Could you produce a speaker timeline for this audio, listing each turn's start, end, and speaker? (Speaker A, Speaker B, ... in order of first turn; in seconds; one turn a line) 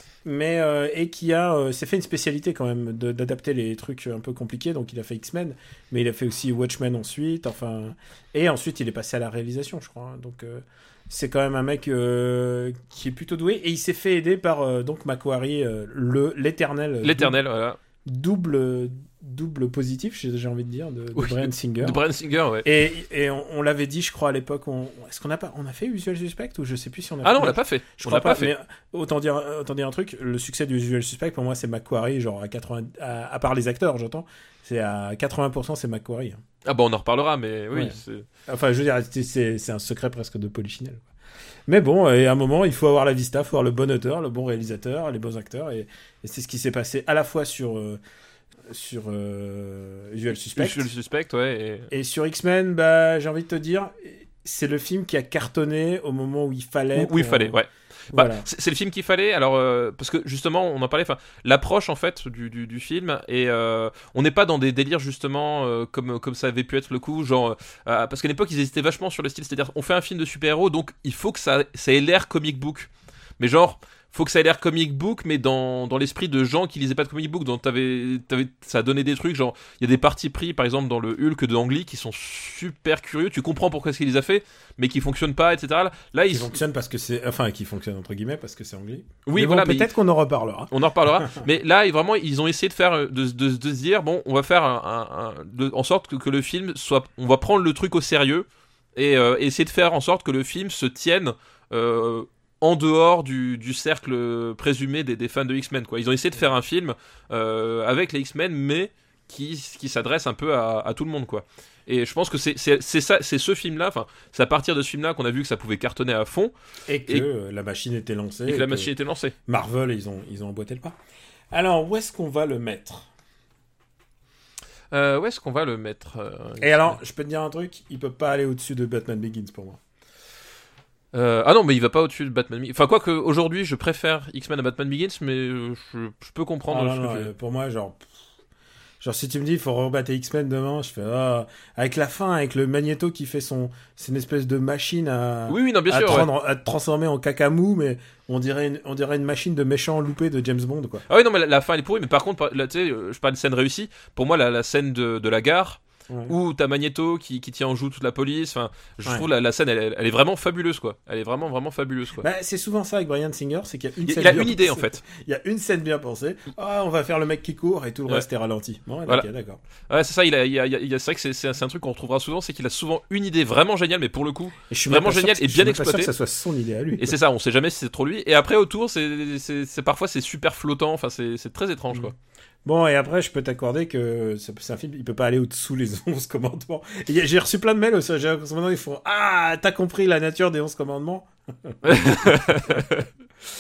Speaker A: 0.2-17.4
Speaker B: 17.0-17.8
Speaker A: 18.1-22.0
Speaker B: 21.2-22.7
Speaker A: 22.6-36.4
Speaker B: 27.2-28.5
Speaker B: 36.6-38.3
Speaker A: 37.7-41.0
Speaker A: 41.7-48.0
Speaker A: 48.7-50.9
Speaker B: 50.6-51.9
Speaker A: 51.9-57.6
Speaker B: 57.0-86.5
Speaker A: 58.1-58.5
Speaker A: 86.3-91.5
Speaker B: 89.3-89.9
Speaker B: 90.7-116.5
Speaker A: 116.9-118.9
Speaker B: 118.5-119.3
Speaker A: 119.5-121.0
Speaker A: 121.5-123.1
Speaker B: 124.9-127.0
Speaker A: 126.6-129.8
Speaker B: 131.1-137.3
Speaker A: 136.7-138.1
Speaker A: 139.0-151.0
Speaker B: 145.5-146.3
Speaker B: 151.1-162.3
Speaker A: 156.1-156.3
Speaker A: 162.2-169.6
Speaker B: 164.0-165.0
Speaker B: 169.9-176.1
Speaker A: 174.7-177.2
Speaker B: 177.0-182.1
Speaker A: 182.7-192.5
Speaker B: 191.8-193.1